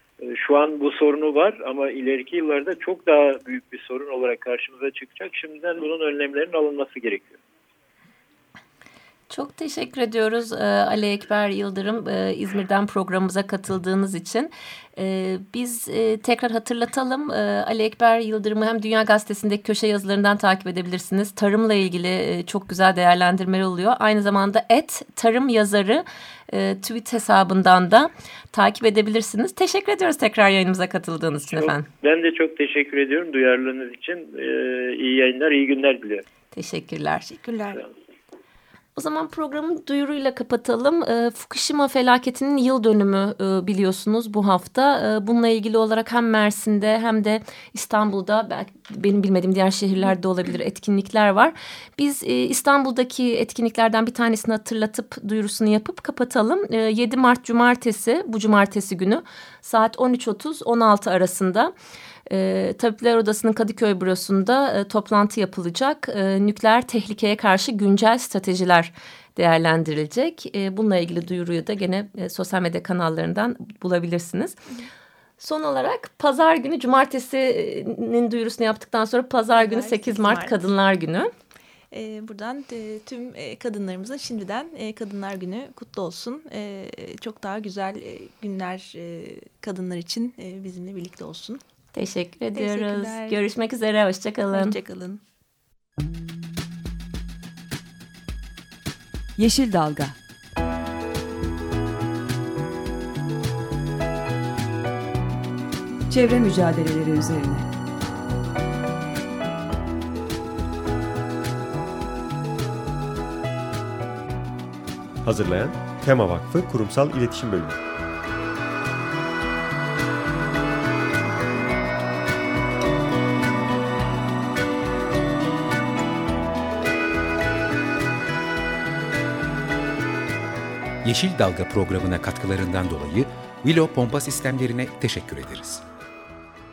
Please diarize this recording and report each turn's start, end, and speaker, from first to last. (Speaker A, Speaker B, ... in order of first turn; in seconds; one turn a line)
Speaker A: 0.2-7.4
Speaker B: 9.3-31.9
Speaker A: 31.5-36.2
Speaker B: 36.5-37.3
Speaker C: 37.3-37.8
Speaker B: 39.0-61.7
Speaker B: 62.3-74.6
Speaker B: 75.4-81.3
Speaker C: 79.6-80.6
Speaker C: 81.9-91.6
Speaker B: 91.9-94.8
Speaker C: 92.5-93.4
Speaker C: 94.5-95.2
Speaker D: 96.0-96.3
Speaker D: 99.4-100.2
Speaker D: 106.1-107.7
Speaker E: 115.2-117.8
Speaker F: 131.0-135.8